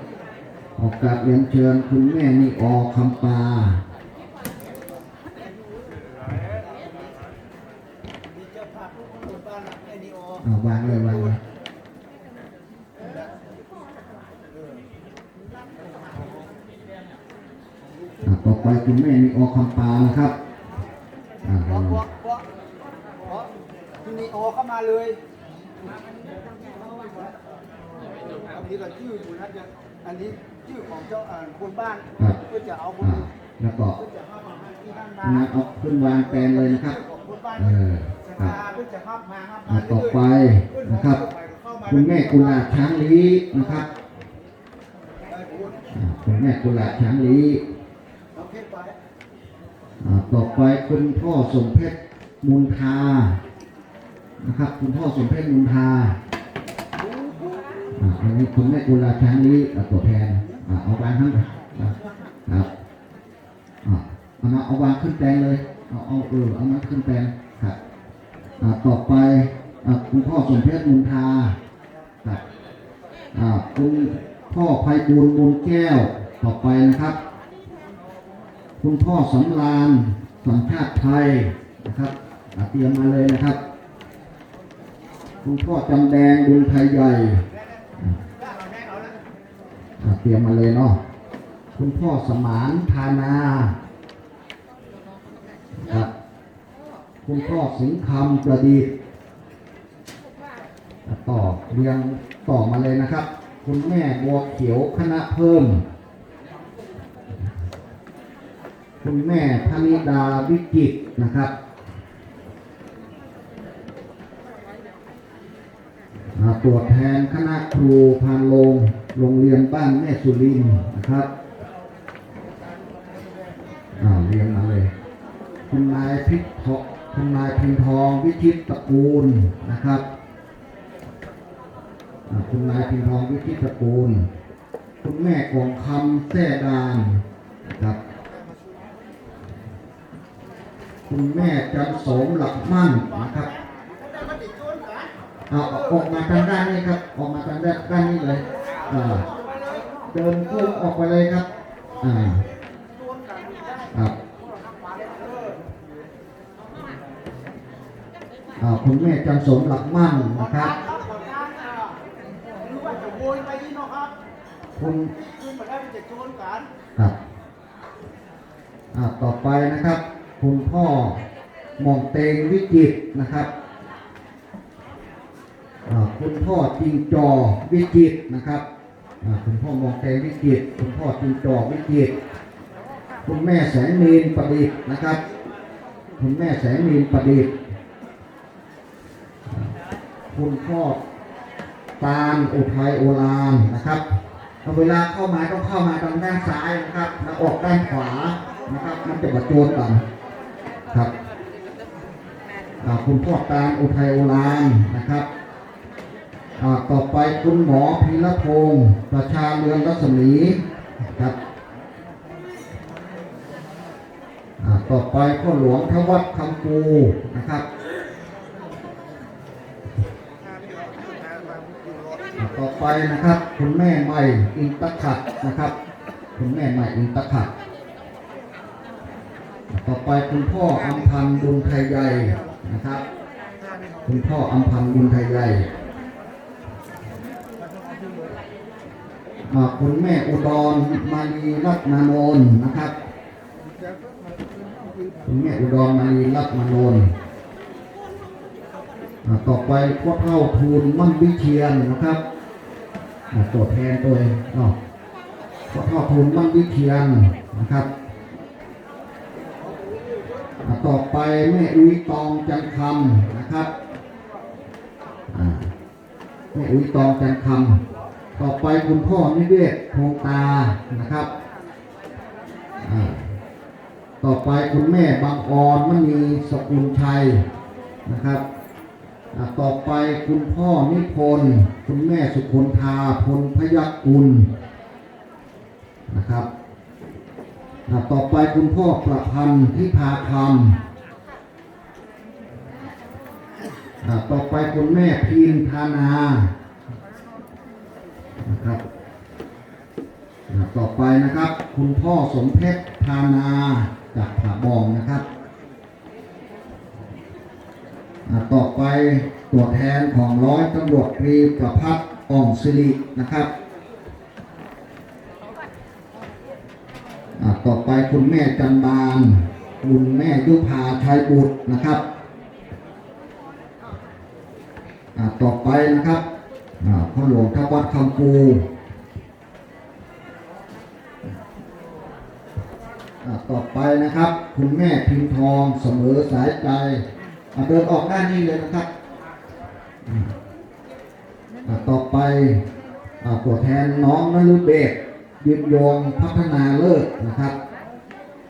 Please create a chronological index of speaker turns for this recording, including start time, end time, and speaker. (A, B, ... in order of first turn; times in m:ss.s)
0:00.8-0:03.8 A
0:08.8-0:10.0 B
0:10.4-0:11.4 A
0:18.2-0:20.3 A
0:21.4-0:22.0 A
0:22.0-0:22.4 B
0:24.0-0:25.2 B
0:26.6-0:27.2 B
0:28.3-0:32.8 B
0:33.0-0:34.0 A
0:34.1-0:35.2 B
0:35.2-0:37.0 A
0:37.5-0:38.6 A
0:38.6-0:39.6 B
0:39.6-0:41.2 A
0:41.8-0:43.9 A
0:45.9-0:47.6 A
0:48.4-0:48.9 B
0:50.0-0:53.4 A
0:54.4-0:56.2 A
0:57.9-1:02.7 A
1:03.8-1:07.8 A
1:08.6-1:11.6 A
1:13.3-1:17.2 A
1:18.8-1:23.6 A
1:25.4-1:27.5 A
1:30.0-1:31.0 A
1:31.8-1:33.8 A
1:35.8-1:36.1 A
1:37.2-1:38.9 A
1:41.0-1:45.8 A
1:49.0-1:51.5 A
1:56.3-2:01.3 A
2:04.0-2:04.9 A
2:05.7-2:10.0 A
2:12.3-2:14.3 A
2:15.0-2:18.0 A
2:21.1-2:23.5 A
2:24.1-2:25.0 B
2:25.5-2:29.3 A
2:30.1-2:31.5 A
2:32.0-2:32.4 A
2:33.1-2:33.7 B
2:34.9-2:35.6 B
2:38.6-2:40.8 A
2:40.8-2:41.9 B
2:42.6-2:44.1 B
2:44.8-2:45.2 A
2:45.3-2:46.7 B
2:48.9-2:51.2 A
2:51.8-2:53.5 A
2:55.9-2:58.6 A
2:59.2-3:02.1 A
3:03.2-3:05.2 A
3:06.2-3:07.5 A
3:10.3-3:11.0 A
3:12.0-3:14.0 A
3:14.6-3:20.0 A
3:22.8-3:25.3 A
3:26.6-3:31.3 A
3:34.6-3:37.6 A
3:42.3-3:45.7 A
3:46.4-3:47.5 A
3:49.7-3:53.0 A
3:54.0-3:55.7 A
3:59.5-4:02.9 A
4:05.2-4:07.1 A
4:09.2-4:12.2 A
4:13.3-4:14.8 A
4:15.7-4:17.9 A
4:20.6-4:23.7 A
4:25.3-4:25.7 A
4:26.5-4:27.8 A
4:28.4-4:31.3 A
4:32.8-4:33.3 A
4:34.2-4:37.4 A
4:38.0-4:38.4 A
4:39.3-4:44.5 A
4:46.1-4:46.5 A
4:47.9-4:50.8 A
4:54.0-4:56.5 A
4:58.4-4:58.8 A
5:00.5-5:05.2 A
5:08.2-5:13.5 A
5:17.4-5:22.0 A
5:25.1-5:26.2 A
5:26.8-5:28.7 A
5:33.2-5:38.9 A
5:40.0-5:40.3 A
5:41.6-5:42.6 A
5:43.2-5:47.6 A